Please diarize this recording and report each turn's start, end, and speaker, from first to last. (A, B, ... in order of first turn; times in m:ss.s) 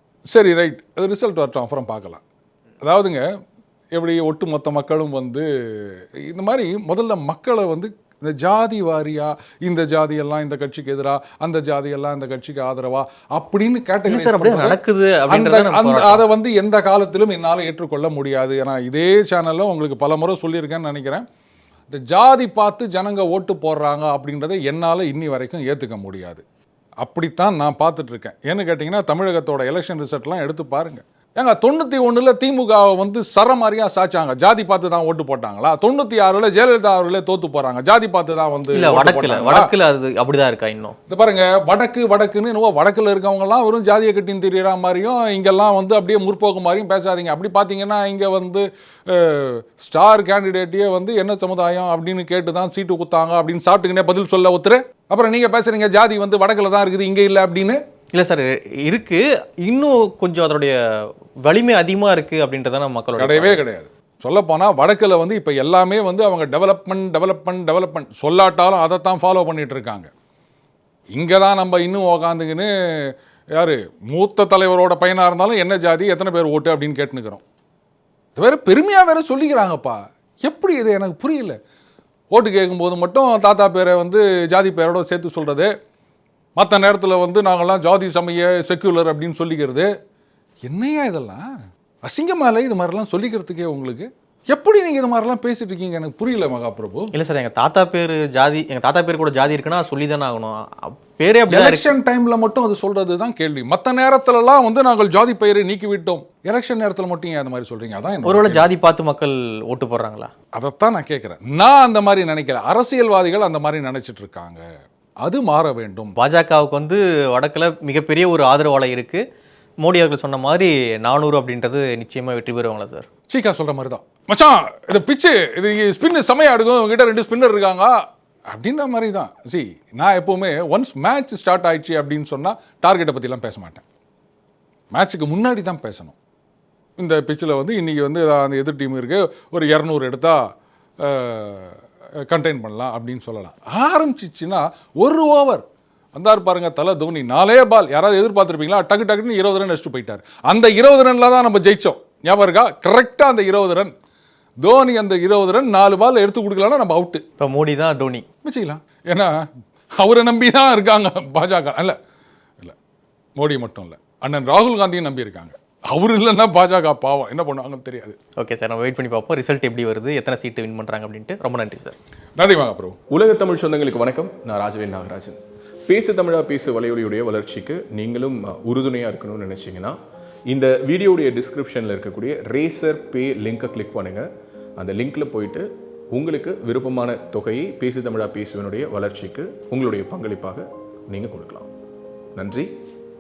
0:00.3-0:02.2 A
0:02.8-0:03.2 A
0:03.9-0:21.2 A
0:14.1-0:16.2 B
0:21.9-0:26.4 A
0:27.0-0:39.7 A
0:38.7-0:41.0 B
0:41.1-0:57.8 A
0:58.1-1:03.6 B
1:03.2-1:10.1 A
1:11.1-1:17.4 A
1:18.4-1:21.6 A
1:22.3-1:25.7 A
1:26.6-1:29.9 A
1:30.6-1:31.4 A
1:32.0-1:37.1 A
1:37.1-1:41.9 B
1:41.5-1:48.7 A
1:48.2-1:50.3 B
1:50.6-1:54.6 A
1:55.2-1:56.1 A
1:56.2-1:59.2 B
1:59.8-2:03.1 B
2:03.3-2:13.8 A
2:14.9-2:16.2 A
2:17.0-2:20.4 A
2:21.0-2:33.9 A
2:34.6-2:37.2 A
2:37.4-2:38.3 B
2:38.4-2:39.4 A
2:40.0-2:42.0 A
2:43.4-2:48.2 A
2:48.4-2:52.0 B
2:52.4-2:53.0 A
2:53.1-3:00.0 C
3:00.5-3:11.7 C
3:12.4-3:12.7 C